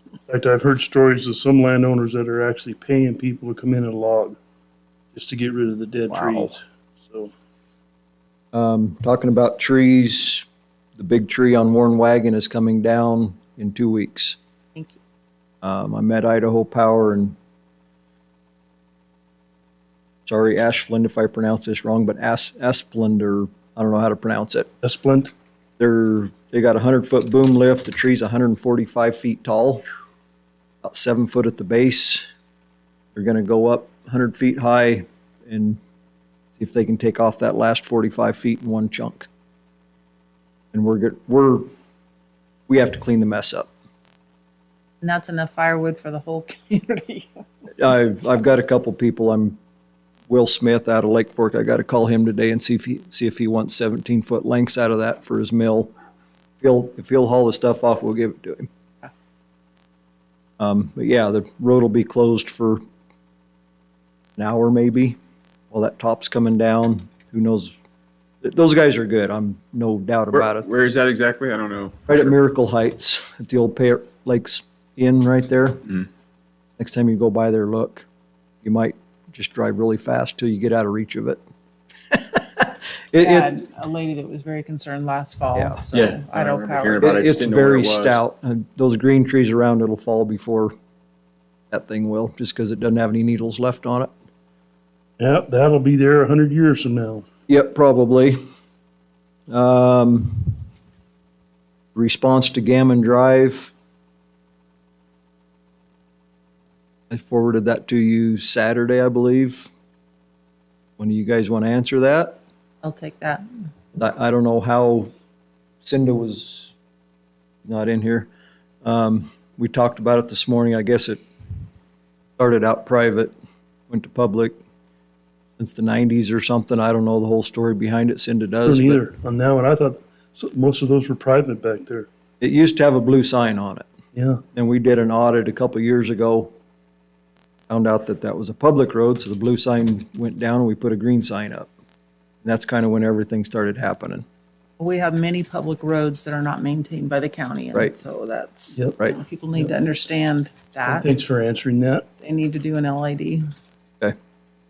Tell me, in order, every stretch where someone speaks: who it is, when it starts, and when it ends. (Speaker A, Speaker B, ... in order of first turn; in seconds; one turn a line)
Speaker A: 0.3-4.3
Speaker A: 5.1-7.3
Speaker B: 6.1-6.5
Speaker B: 8.5-14.4
Speaker B: 15.6-17.4
Speaker B: 20.2-24.7
Speaker A: 24.8-25.3
Speaker B: 25.8-29.9
Speaker B: 30.8-32.2
Speaker B: 33.1-35.8
Speaker B: 36.6-39.3
Speaker B: 40.7-41.7
Speaker B: 42.7-43.7
Speaker C: 45.0-47.4
Speaker B: 47.8-49.6
Speaker B: 50.3-55.9
Speaker B: 56.6-58.7
Speaker B: 60.6-62.8
Speaker B: 64.4-65.2
Speaker B: 65.7-67.7
Speaker B: 68.4-70.7
Speaker D: 70.3-72.3
Speaker B: 72.1-75.9
Speaker B: 76.8-78.1
Speaker B: 78.6-81.4
Speaker B: 82.6-83.5
Speaker C: 83.2-87.2
Speaker B: 85.5-85.8
Speaker D: 85.9-88.2
Speaker B: 87.0-90.7
Speaker B: 91.7-94.1
Speaker A: 95.2-97.2
Speaker B: 97.5-98.4
Speaker B: 99.5-100.6
Speaker B: 101.9-103.7
Speaker B: 107.1-109.7
Speaker B: 111.0-112.4
Speaker C: 112.8-113.5
Speaker B: 114.0-115.1
Speaker B: 115.8-116.7
Speaker B: 117.6-118.3
Speaker B: 118.8-121.2
Speaker B: 122.4-123.3
Speaker B: 123.9-124.6
Speaker B: 125.6-129.0
Speaker A: 128.7-132.1
Speaker B: 132.4-133.9
Speaker A: 134.2-134.4
Speaker B: 134.5-136.5
Speaker B: 137.7-141.7
Speaker B: 142.4-144.2
Speaker C: 144.8-151.1
Speaker A: 150.9-152.1
Speaker C: 152.2-153.4